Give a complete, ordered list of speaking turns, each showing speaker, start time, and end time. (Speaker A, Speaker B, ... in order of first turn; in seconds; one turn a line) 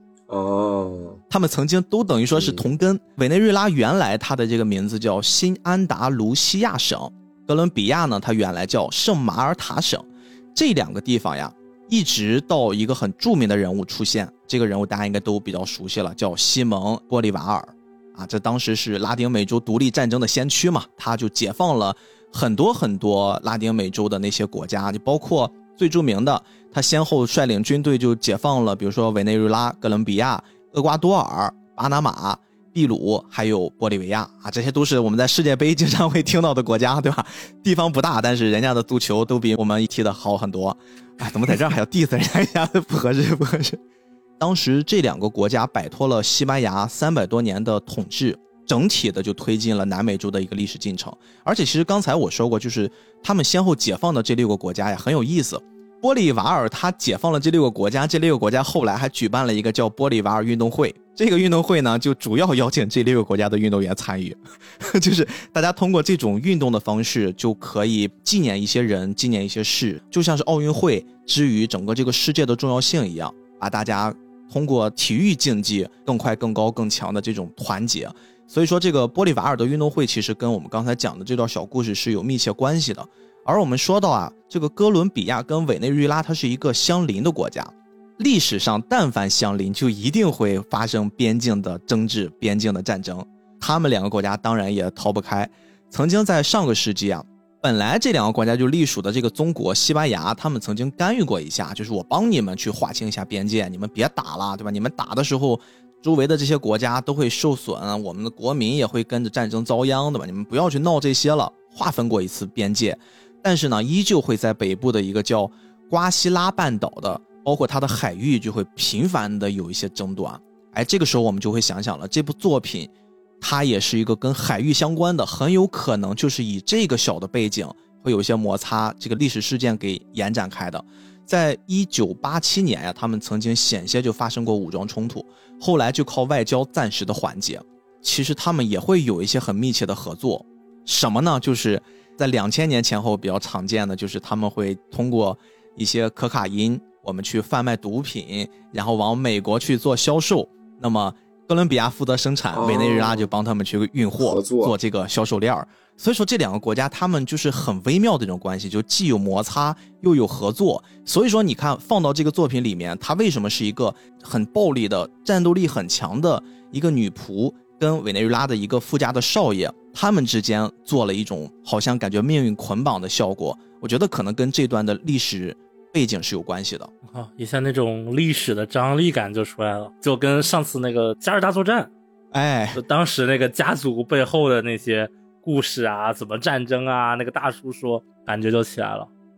Speaker A: 0.3-1.2
Speaker B: 1.3-43.8
Speaker A: 2.4-2.6
Speaker B: 44.4-122.9
Speaker B: 123.4-176.9
Speaker A: 152.5-153.3
Speaker A: 154.2-154.7
Speaker C: 177.1-181.9
Speaker B: 182.3-182.8
Speaker C: 182.7-189.1